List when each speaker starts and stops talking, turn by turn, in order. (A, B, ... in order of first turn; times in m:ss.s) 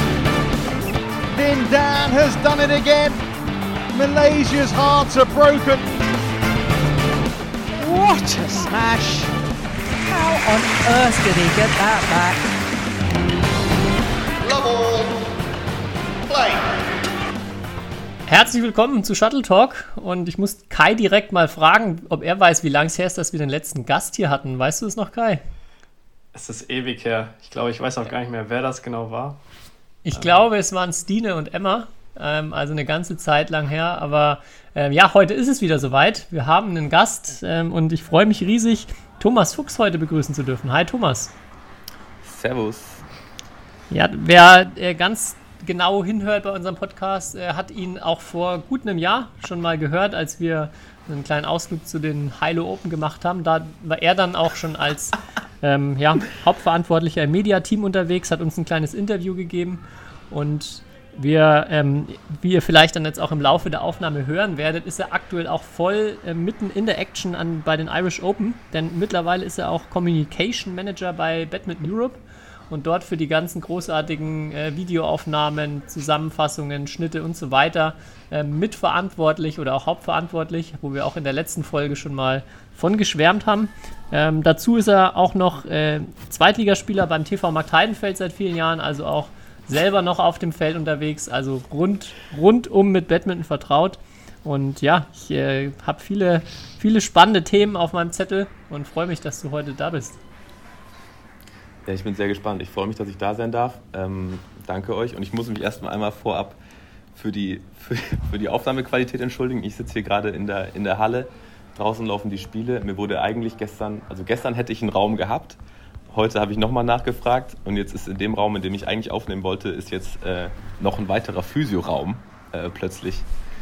0:01.3-0:03.2 A
0:03.9-0:05.9 A
0:07.8-0:09.3 B
0:10.1-0:12.4 B
0:18.3-0:25.4 C
0:26.3-0:29.4 D
0:30.1-0:41.3 C
0:42.2-0:43.0 E
0:43.9-1:40.2 C
1:41.9-1:46.6 E
1:47.2-2:03.3 E